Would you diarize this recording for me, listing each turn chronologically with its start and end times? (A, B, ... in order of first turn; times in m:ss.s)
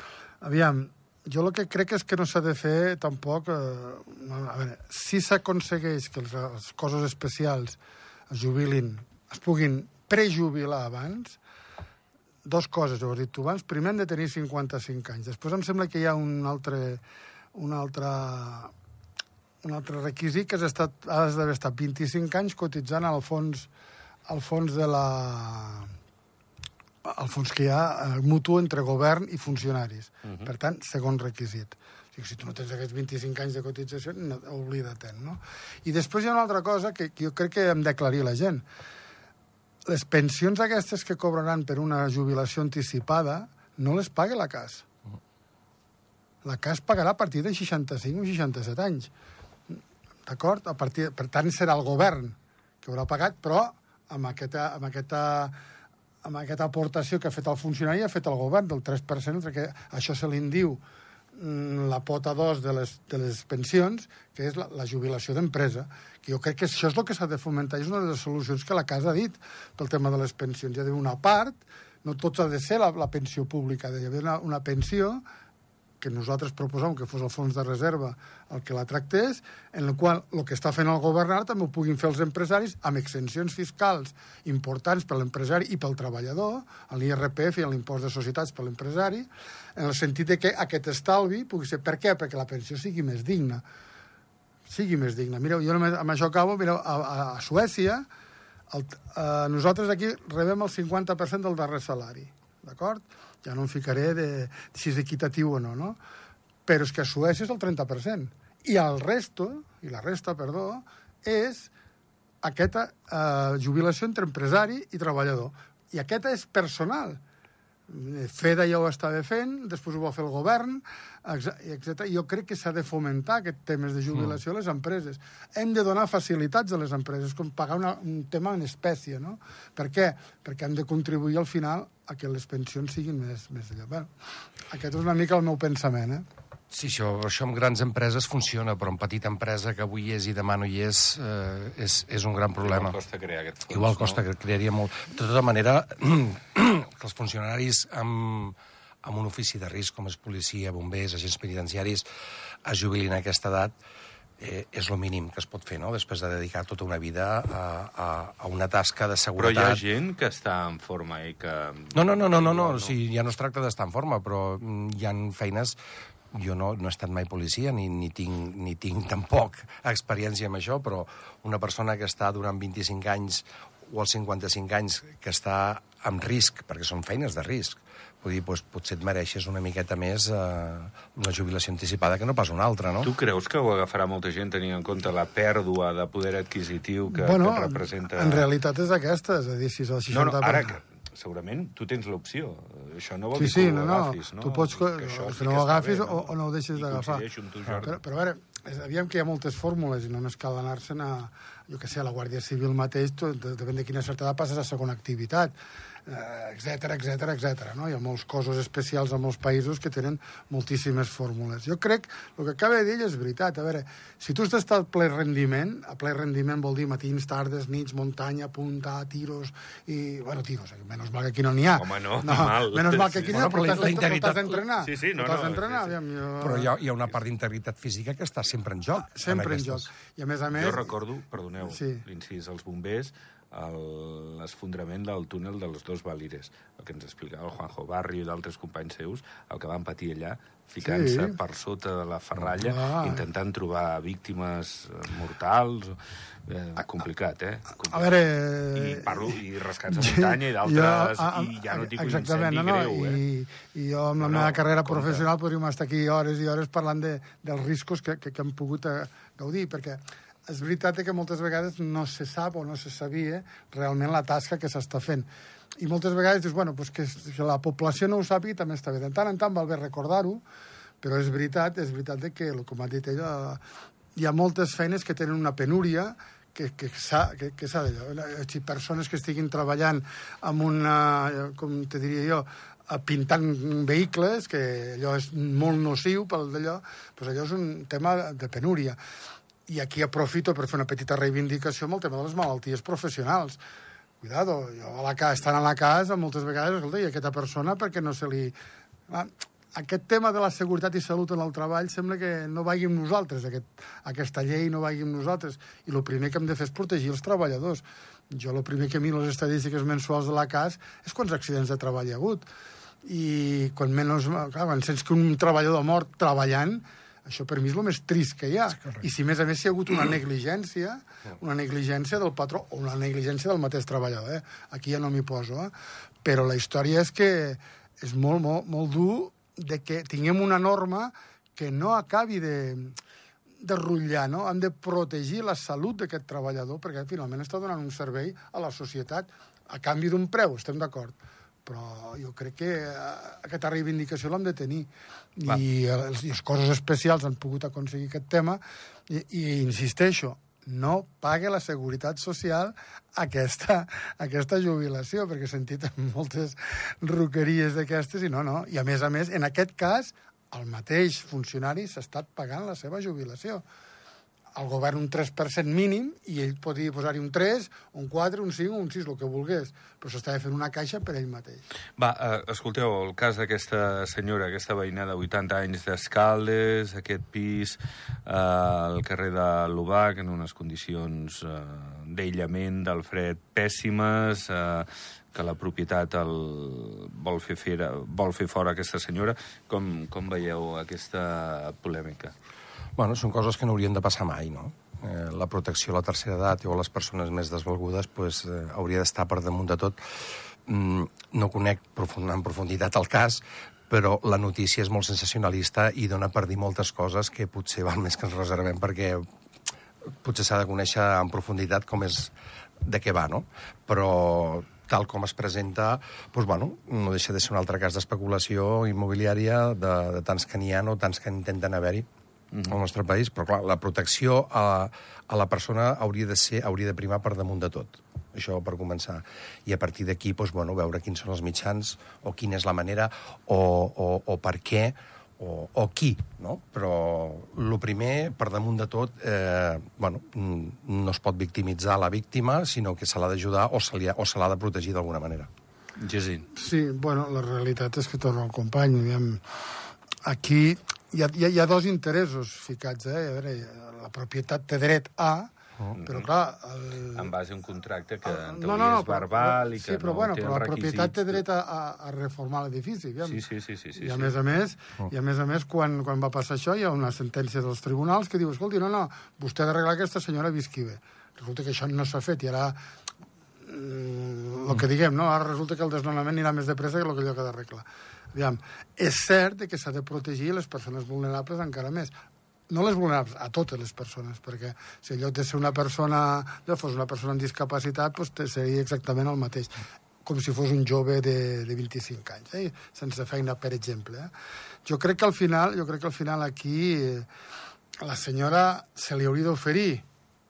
0:00.4-0:07.8 A
0:08.3-0:11.4 A
0:12.4-0:17.0 A
0:17.5-0:18.7 A
0:19.6-0:23.7 A
0:24.3-0:25.9 A
0:27.0-0:38.6 A
0:39.9-0:44.8 A
0:46.4-0:49.1 A
0:49.7-0:55.6 A
0:56.2-1:00.8 A
1:01.3-1:15.2 A
1:16.0-1:33.6 A
1:34.7-1:38.0 A
1:38.7-1:46.0 A
1:46.6-1:51.7 A
1:52.4-1:57.2 A
1:57.9-2:14.1 A
2:14.7-2:16.2 A
2:16.7-2:23.0 B
2:22.6-2:24.2 C
2:23.7-2:32.0 B
2:32.6-2:33.8 B
2:34.4-2:39.8 B
2:39.4-2:42.9 C
2:41.9-2:45.8 B
2:46.3-3:03.1 B
3:03.0-3:08.5 C
3:07.1-3:10.8 A
3:10.1-3:18.0 C
3:13.3-3:17.2 A
3:17.8-3:25.5 A
3:26.0-3:46.7 A
3:41.8-3:44.0 C
3:43.3-3:44.6 B
3:44.8-3:46.0 C
3:46.4-3:49.9 B
3:49.0-3:50.9 A
3:50.5-4:13.2 C
3:51.7-3:52.0 A
4:00.8-4:01.4 A
4:02.5-4:03.2 A
4:07.9-4:09.4 A
4:09.9-4:25.3 A
4:14.2-4:15.2 C
4:25.8-4:30.4 A
4:31.0-4:33.6 A
4:34.2-4:49.0 A
4:49.7-4:53.6 A
4:54.2-4:58.5 A
4:59.1-5:12.5 A
5:13.0-5:25.7 A
5:26.2-5:33.0 A
5:33.6-6:03.6 A
6:04.5-6:11.6 A
6:12.0-6:32.3 C
6:33.0-6:49.2 B
6:50.2-7:02.0 B
7:02.6-7:25.5 B
7:26.0-7:26.5 C
7:26.5-7:29.4 A
7:30.2-7:35.5 A
7:35.9-7:36.3 C
7:36.0-7:37.3 A
7:37.1-7:41.4 C
7:38.2-7:43.4 A
7:43.2-7:44.3 C
7:44.0-7:52.8 A
7:53.6-8:02.1 A
8:02.7-8:14.3 A
8:14.8-8:17.3 A
8:18.0-8:20.0 A